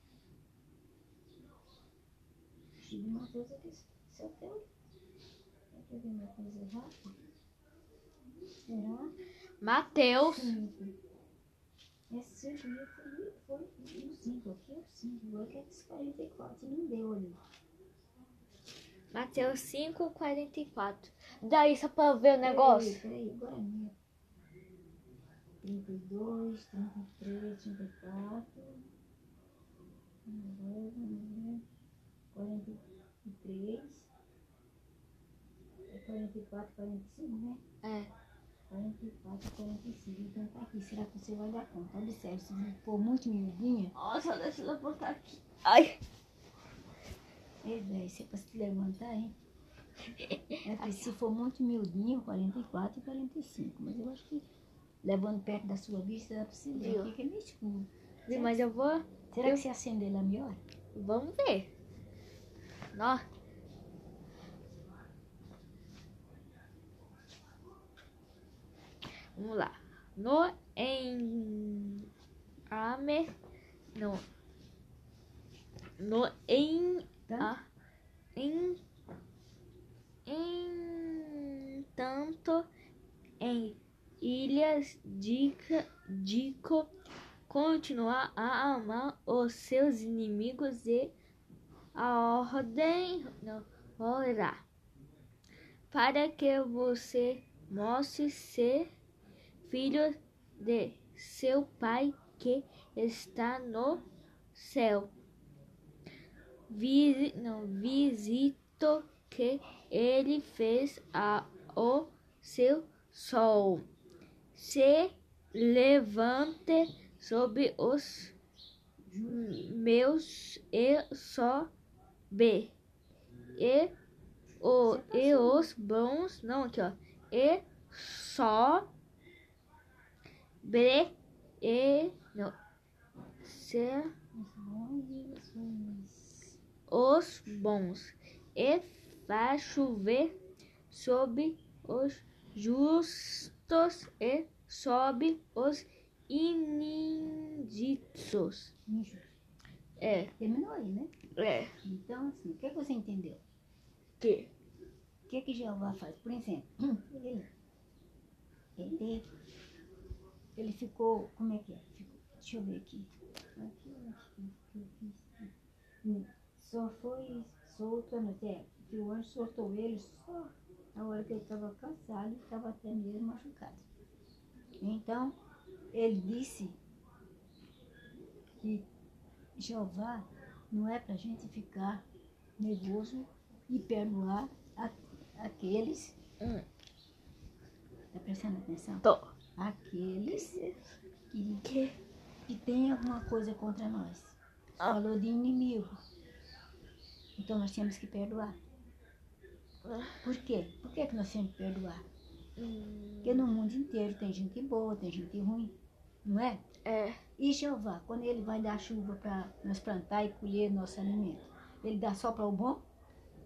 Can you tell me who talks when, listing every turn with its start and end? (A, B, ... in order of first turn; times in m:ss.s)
0:02.8-0:04.6 A
0:05.7-0:07.2 A
0:08.7-0:09.1 A
0:09.6-0:10.6 B
0:10.1-0:11.0 A
0:12.1-0:17.4 A
0:19.1-0:23.0 B
0:22.4-0:24.0 A
0:25.6-0:28.9 A
0:30.2-0:31.6 A
0:32.3-0:34.1 A
0:35.9-0:37.6 A
0:37.8-0:38.1 B
0:38.7-0:43.9 A
0:44.0-0:46.0 B
0:47.6-0:49.3 A
0:50.2-0:51.0 B
0:50.6-0:54.4 A
0:55.0-0:58.6 A
0:56.8-0:57.1 B
0:58.3-0:59.6 B
0:59.3-1:00.6 A
1:01.0-1:01.7 B
1:02.9-1:03.2 B
1:09.4-1:12.1 B
1:12.7-1:13.3 B
1:14.0-1:14.2 B
1:16.0-1:17.7 B
1:17.3-1:17.5 A
1:18.4-1:18.8 B
1:20.3-1:22.7 B
1:23.4-1:26.9 B
1:27.5-1:31.2 B
1:32.0-1:34.6 B
1:35.9-1:38.9 B
1:39.6-1:45.1 B
1:46.7-1:53.8 B
1:54.6-1:58.3 B
1:59.0-1:59.5 A
1:59.3-2:01.7 B
2:02.3-2:02.7 B
2:03.6-2:03.9 B
2:04.6-2:08.9 B
2:04.8-2:05.7 A
2:10.6-2:12.6 B
2:13.4-2:14.1 B
2:14.3-2:16.6 A
2:16.9-2:20.4 B
2:20.9-2:28.7 B
2:28.9-2:29.3 A
2:30.0-2:30.3 B
2:30.4-2:31.1 A
2:31.4-2:31.7 B
2:31.8-2:33.4 A
2:34.2-2:34.5 B
2:35.3-2:37.5 A
2:38.8-2:39.3 A
2:40.6-2:45.5 A
2:46.0-2:53.8 A
2:54.8-2:55.4 A
2:55.9-2:56.8 A
2:58.6-2:58.9 A
2:59.6-3:02.0 A
3:02.6-3:06.2 A
3:08.1-3:10.6 A
3:09.0-3:09.3 B
3:10.3-3:10.8 B
3:11.3-3:11.7 A
3:11.6-3:11.9 B
3:12.5-3:16.0 A
3:17.4-3:18.6 A
3:19.8-3:20.2 B
3:20.2-3:22.0 A
3:22.6-3:23.5 B
3:23.2-3:26.6 A
3:26.8-3:27.2 B
3:27.4-3:32.8 A